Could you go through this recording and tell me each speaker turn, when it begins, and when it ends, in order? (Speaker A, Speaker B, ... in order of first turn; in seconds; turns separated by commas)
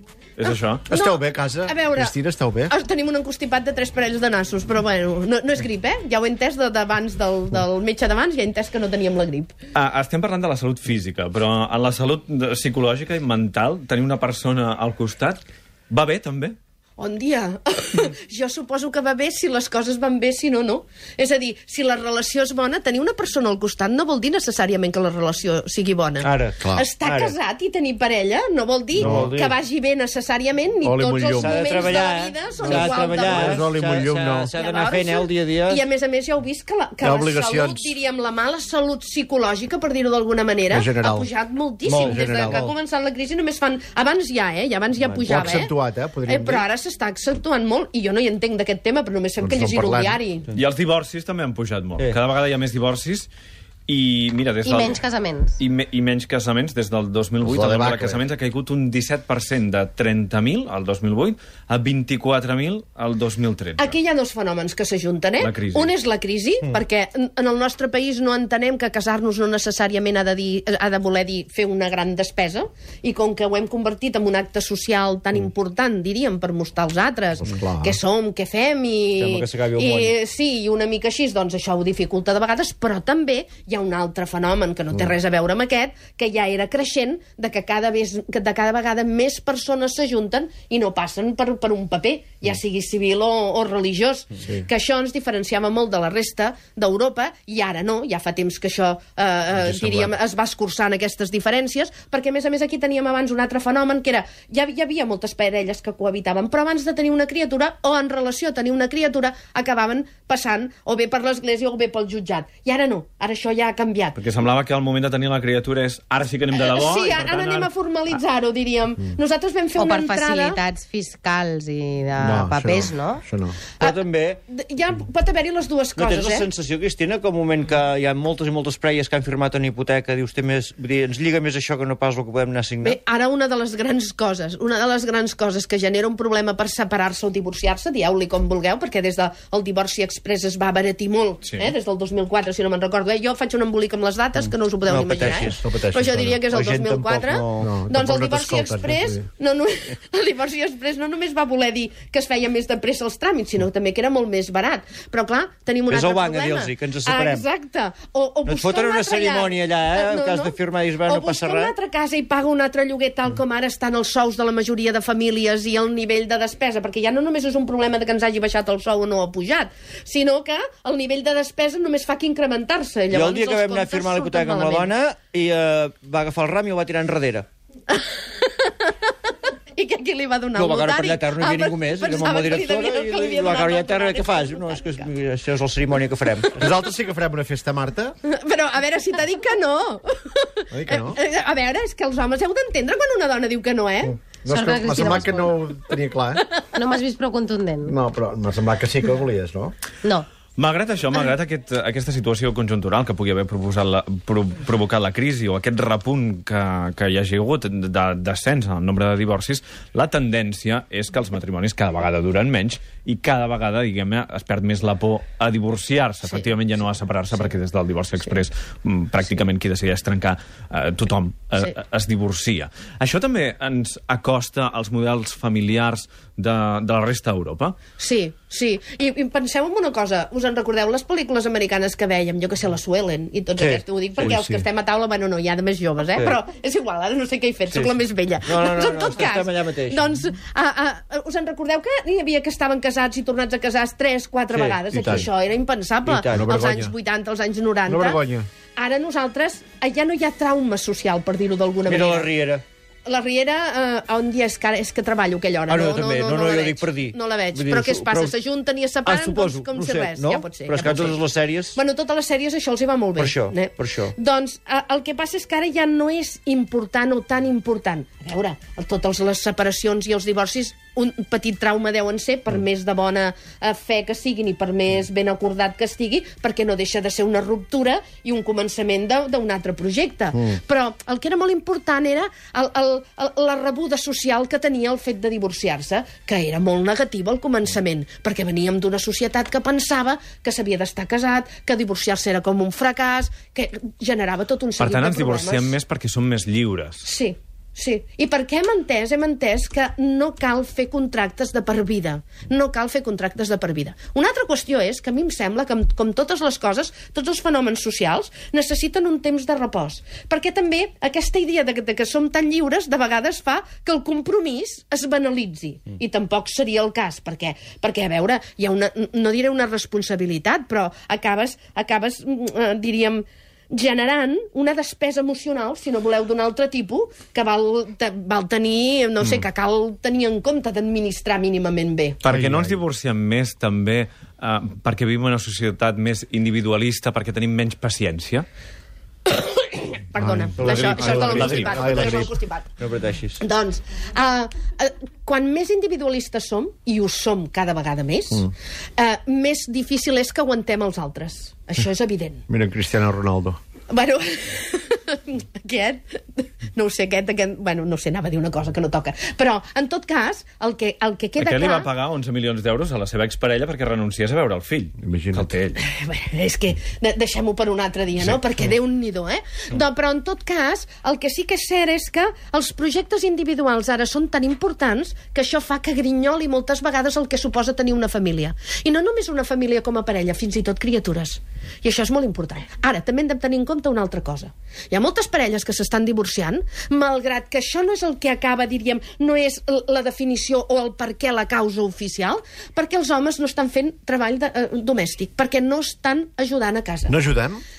Speaker A: 0.4-0.9, Speaker B: 0.9-2.7, Speaker C: 0.9-2.1, Speaker C: 2.7-9.5, Speaker A: 9.7-16.6, Speaker C: 17.0-33.6, Speaker D: 26.2-27.3, Speaker B: 26.6-26.9, Speaker B: 29.0-29.4, Speaker D: 29.0-29.6, Speaker B: 30.8-31.9, Speaker D: 31.4-35.8, Speaker B: 32.6-34.5, Speaker C: 34.5-45.7, Speaker B: 37.0-37.9, Speaker B: 40.7-41.3, Speaker D: 41.8-42.7, Speaker B: 42.0-42.6, Speaker B: 45.1-46.6, Speaker C: 46.2-50.5, Speaker B: 49.4-50.2, Speaker A: 50.5-53.3, Speaker A: 53.9-55.0, Speaker E: 54.6-55.6, Speaker A: 55.6-64.0, Speaker B: 57.4-58.2, Speaker C: 63.8-114.2, Speaker A: 65.4-65.9, Speaker B: 77.4-78.0, Speaker D: 79.2-80.1, Speaker B: 99.6-100.1, Speaker A: 114.2-118.2, Speaker C: 116.5-120.6, Speaker E: 119.7-123.2, Speaker B: 122.2-123.6, Speaker D: 123.8-124.4, Speaker C: 123.8-126.5, Speaker D: 126.0-133.0, Speaker C: 132.8-174.9, Speaker A: 141.4-141.7, Speaker D: 144.8-145.6, Speaker B: 145.4-146.4, Speaker D: 146.4-147.8, Speaker B: 147.6-149.2, Speaker D: 155.9-157.4, Speaker D: 158.4-161.7, Speaker D: 173.1-177.5, Speaker C: 177.9-179.1, Speaker C: 179.7-185.0, Speaker D: 180.5-186.7, Speaker B: 186.6-188.1, Speaker C: 188.3-194.2, Speaker B: 190.7-191.2, Speaker B: 194.2-196.4, Speaker E: 194.5-195.6, Speaker E: 196.7-197.9, Speaker B: 197.9-199.7, Speaker A: 200.6-227.8, Speaker C: 228.0-248.2, Speaker D: 233.6-234.5, Speaker B: 234.3-234.6, Speaker D: 237.7-240.1, Speaker D: 244.5-244.8, Speaker B: 244.9-245.3, Speaker D: 246.1-246.4, Speaker B: 246.3-246.9, Speaker B: 247.8-248.5, Speaker C: 248.8-252.3, Speaker D: 251.8-252.6, Speaker C: 253.1-261.2, Speaker D: 255.7-258.4, Speaker D: 259.1-261.8, Speaker C: 261.7-295.7, Speaker D: 263.1-264.1, Speaker A: 294.8-297.1, Speaker C: 297.0-332.2, Speaker A: 332.2-338.4, Speaker B: 332.3-332.8, Speaker C: 339.3-342.7, Speaker B: 340.2-342.3, Speaker D: 340.6-341.6, Speaker A: 340.7-341.9, Speaker D: 342.8-343.4, Speaker C: 343.4-352.4, Speaker B: 352.5-353.6, Speaker C: 353.9-361.9, Speaker A: 361.4-365.8, Speaker B: 365.0-365.5, Speaker C: 365.8-397.1, Speaker B: 397.1-397.6